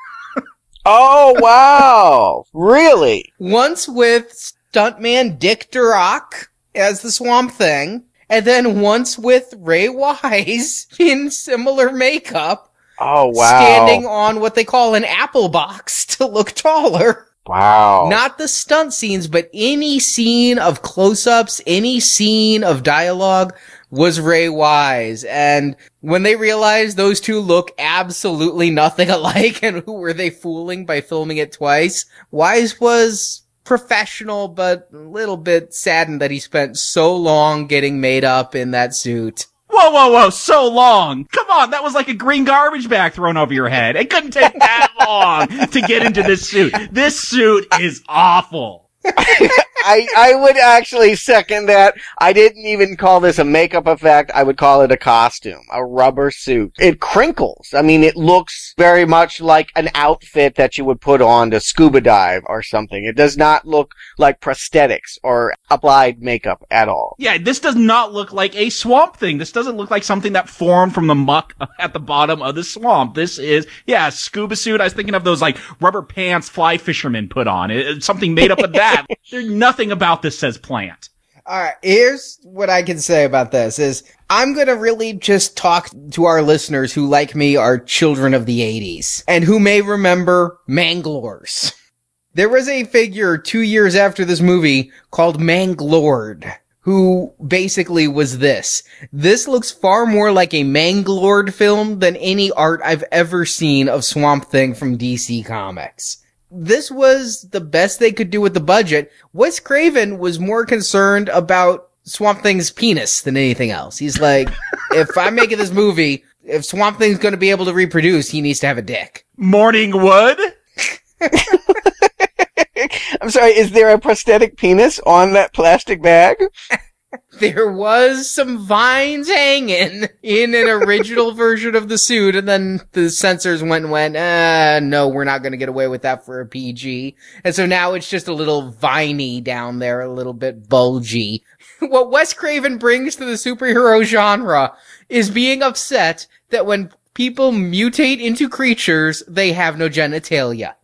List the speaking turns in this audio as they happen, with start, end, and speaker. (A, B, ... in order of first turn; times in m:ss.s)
0:00.8-0:03.3 A
0:03.4-0:12.7 B
0:13.0-0:14.0 A
0:13.3-0:17.2 B
0:17.4-0:18.2 A
0:18.0-0:39.5 B
0:39.7-0:48.8 C
0:49.2-1:07.2 A
1:07.2-1:21.1 C
1:21.5-1:31.7 B
1:32.3-1:59.2 B
1:59.4-2:00.5 C
2:02.8-2:06.4 A
2:07.4-2:30.7 B